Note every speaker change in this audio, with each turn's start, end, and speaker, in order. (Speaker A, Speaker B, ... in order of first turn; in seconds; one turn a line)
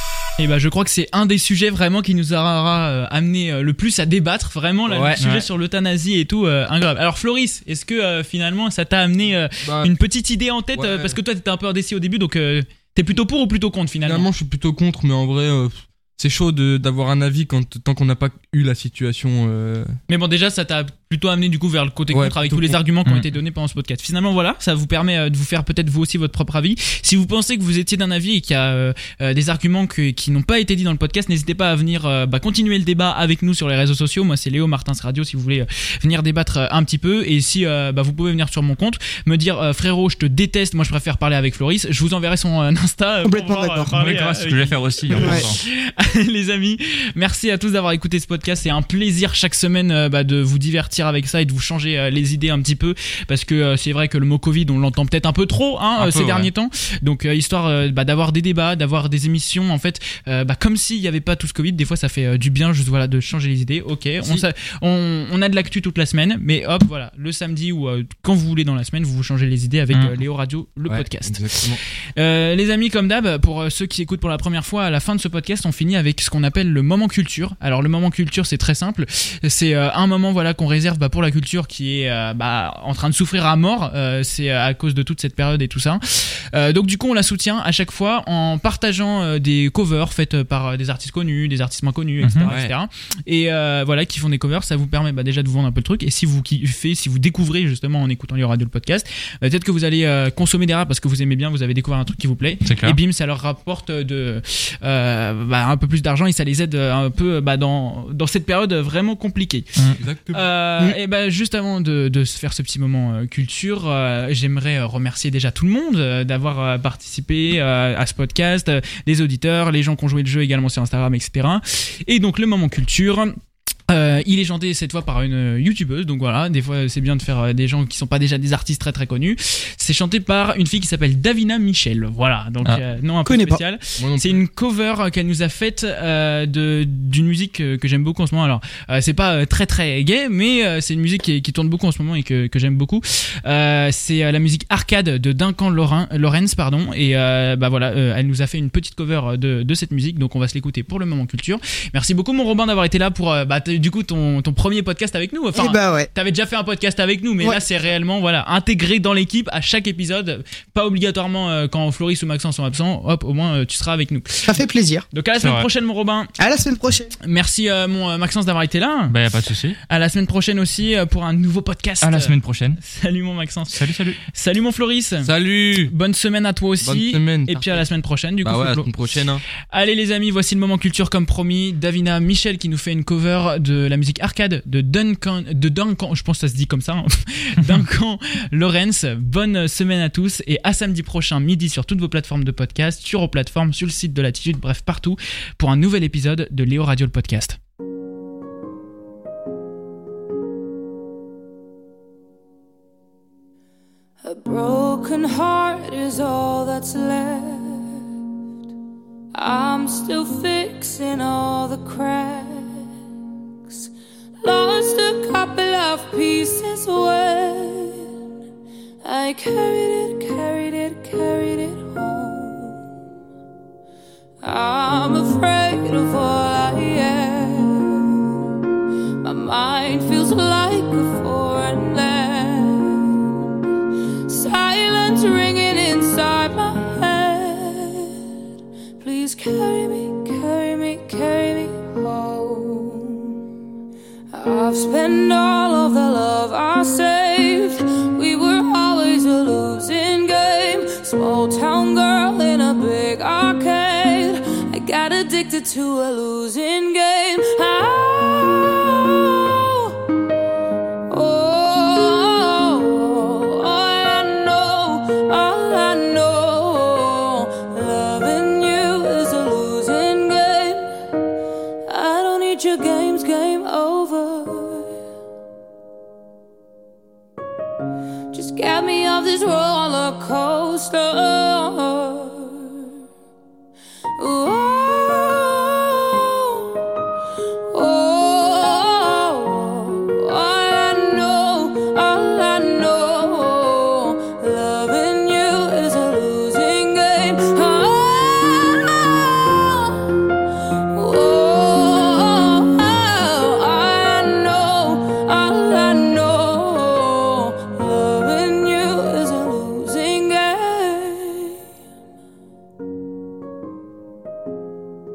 Speaker A: 0.4-14.3
Speaker B: 4.9-5.2
Speaker C: 5.2-5.4
Speaker B: 9.6-9.9
Speaker B: 10.7-11.2
Speaker B: 14.0-19.9
Speaker A: 20.1-71.6
Speaker B: 22.1-22.8
Speaker D: 43.2-43.9
Speaker C: 44.0-45.6
Speaker D: 45.2-45.5
Speaker B: 56.0-56.5
Speaker B: 70.9-71.8
Speaker A: 72.2-109.8
Speaker C: 92.2-92.5
Speaker B: 92.5-92.7
Speaker C: 102.6-103.0
Speaker B: 110.0-110.5
Speaker A: 110.3-123.3
Speaker A: 123.9-164.6
Speaker D: 133.2-133.6
Speaker B: 134.0-134.4
Speaker D: 155.5-156.1
Speaker D: 164.4-165.0
Speaker A: 165.1-166.3
Speaker C: 165.4-165.7
Speaker D: 166.4-167.1
Speaker A: 167.2-169.2
Speaker C: 169.1-169.8
Speaker A: 169.9-173.8
Speaker C: 172.0-172.8
Speaker C: 173.7-174.2
Speaker A: 174.3-175.3
Speaker B: 175.2-175.9
Speaker A: 175.9-178.9
Speaker B: 176.8-177.8
Speaker B: 178.4-179.4
Speaker A: 179.7-197.6
Speaker E: 204.2-208.0
Speaker E: 209.3-212.8
Speaker E: 214.4-218.1
Speaker E: 219.0-222.8
Speaker E: 224.4-228.3
Speaker E: 229.2-233.4
Speaker E: 234.3-238.2
Speaker E: 239.0-243.4
Speaker E: 244.3-259.9
Speaker E: 261.1-270.9
Speaker E: 271.9-274.9
Speaker E: 278.3-282.9
Speaker E: 284.2-286.8
Speaker E: 287.7-300.1
Speaker E: 300.9-311.6